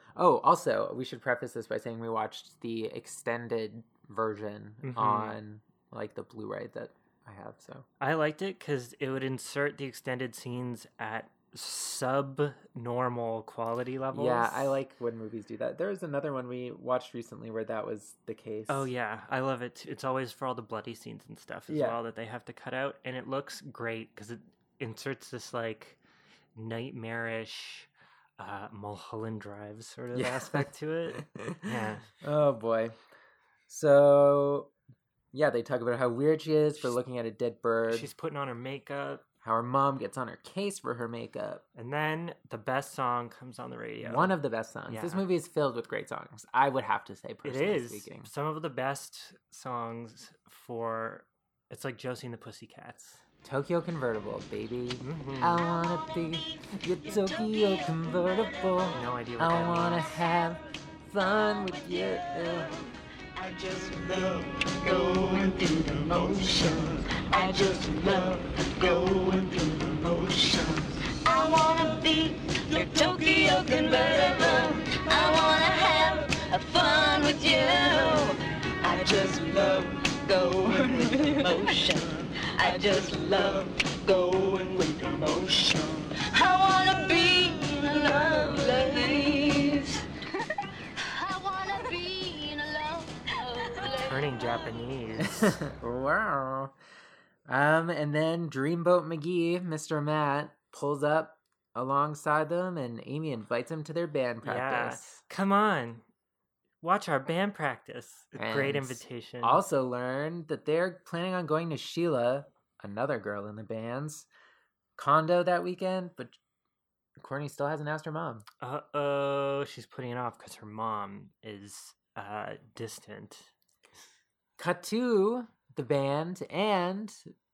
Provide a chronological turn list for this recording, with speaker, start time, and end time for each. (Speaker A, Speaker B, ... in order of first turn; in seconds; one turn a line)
Speaker A: 0.1-7.9
Speaker B: 4.8-5.4
Speaker B: 8.0-14.8
Speaker A: 14.1-18.9
Speaker B: 18.7-26.0
Speaker A: 21.7-22.0
Speaker B: 26.5-32.1
Speaker A: 30.1-33.0
Speaker A: 33.7-34.7
Speaker A: 35.3-38.1
Speaker B: 37.9-39.2
Speaker A: 39.4-41.6
Speaker B: 41.8-45.2
Speaker A: 44.0-48.3
Speaker B: 47.4-53.2
Speaker A: 53.4-62.7
Speaker B: 55.0-55.6
Speaker B: 58.9-60.2
Speaker C: 63.4-90.0
Speaker C: 91.0-94.4
Speaker B: 94.0-95.6
Speaker A: 95.2-96.8
Speaker A: 97.5-105.1
Speaker B: 104.4-106.0
Speaker B: 106.8-109.6
Speaker A: 108.4-114.3
Speaker A: 115.0-116.4
Speaker A: 117.2-118.4
Speaker B: 118.6-123.5
Speaker A: 124.6-127.2